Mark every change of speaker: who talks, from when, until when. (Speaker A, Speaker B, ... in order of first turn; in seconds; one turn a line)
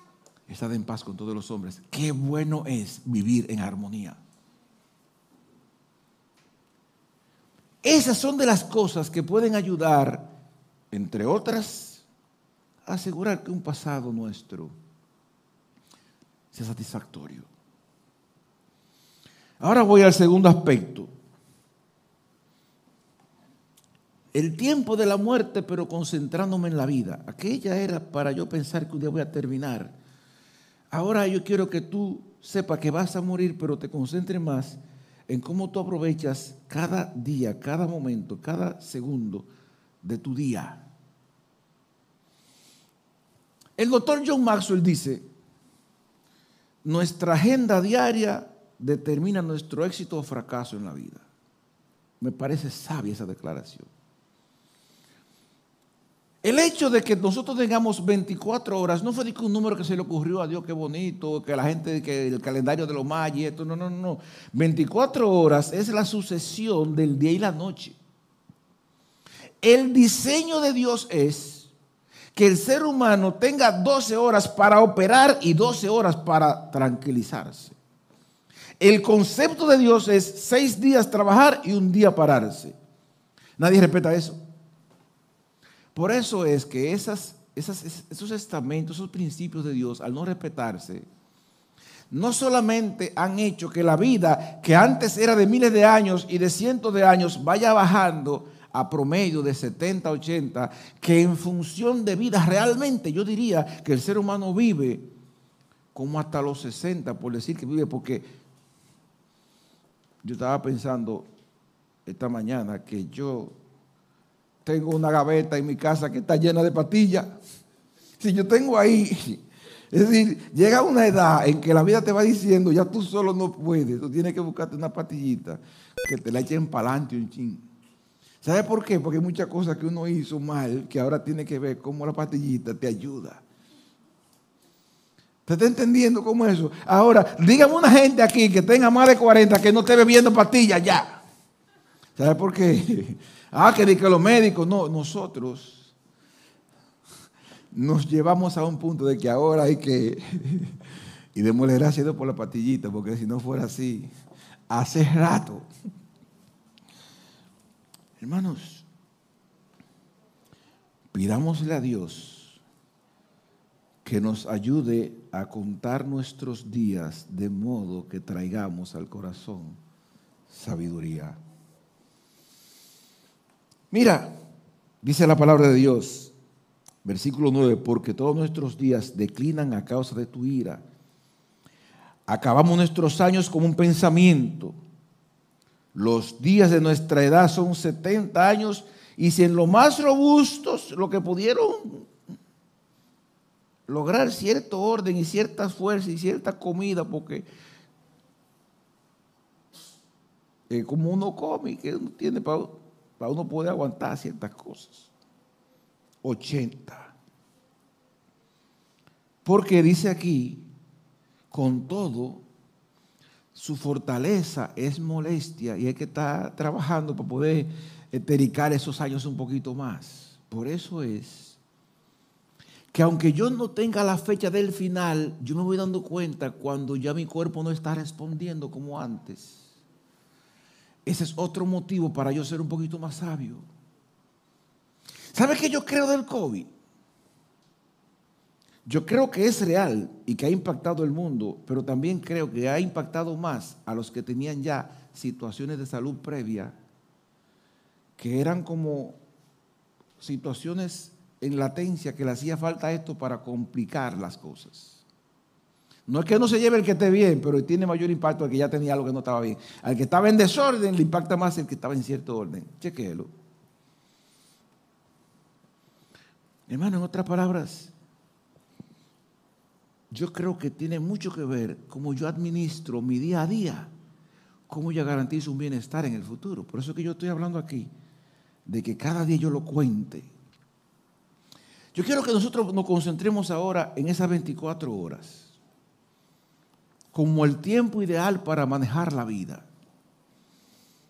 Speaker A: 0.5-4.2
Speaker A: 7.8-10.3
Speaker A: 10.9-12.0
Speaker A: 12.8-14.7
Speaker A: 16.5-17.5
Speaker A: 19.6-21.1
Speaker A: 24.3-29.9
Speaker A: 30.9-39.5
Speaker A: 40.0-40.8
Speaker A: 43.8-45.2
Speaker A: 46.8-51.2
Speaker A: 52.2-53.9
Speaker A: 56.4-68.0
Speaker A: 69.6-71.7
Speaker A: 72.3-77.8
Speaker A: 78.8-82.7
Speaker A: 83.6-84.4
Speaker A: 85.9-91.0
Speaker A: 92.1-105.1
Speaker A: 105.9-108.2
Speaker A: 110.2-111.2
Speaker A: 112.0-113.5
Speaker A: 114.6-117.3
Speaker A: 118.2-127.6
Speaker A: 128.4-133.4
Speaker A: 135.4-141.2
Speaker A: 142.2-145.9
Speaker A: 147.7-150.8
Speaker A: 151.3-154.1
Speaker A: 154.7-155.7
Speaker A: 158.2-158.8
Speaker A: 161.1-162.6
Speaker A: 164.0-169.8
Speaker A: 170.5-171.4
Speaker A: 173.9-174.3
Speaker A: 175.0-176.3
Speaker A: 177.0-180.8
Speaker A: 182.3-184.8
Speaker A: 185.9-192.1
Speaker A: 193.9-197.4
Speaker A: 200.7-205.1
Speaker A: 206.2-207.1
Speaker A: 209.4-210.7
Speaker A: 211.5-212.4
Speaker A: 213.5-221.6
Speaker A: 222.9-229.7
Speaker A: 231.1-233.7
Speaker A: 235.3-236.7
Speaker A: 238.8-246.8
Speaker A: 248.2-249.2
Speaker A: 250.2-255.0
Speaker A: 256.1-263.3
Speaker A: 266.7-267.9
Speaker A: 270.1-273.9
Speaker A: 274.7-277.9
Speaker A: 278.6-280.3
Speaker A: 281.9-285.5
Speaker A: 287.1-289.7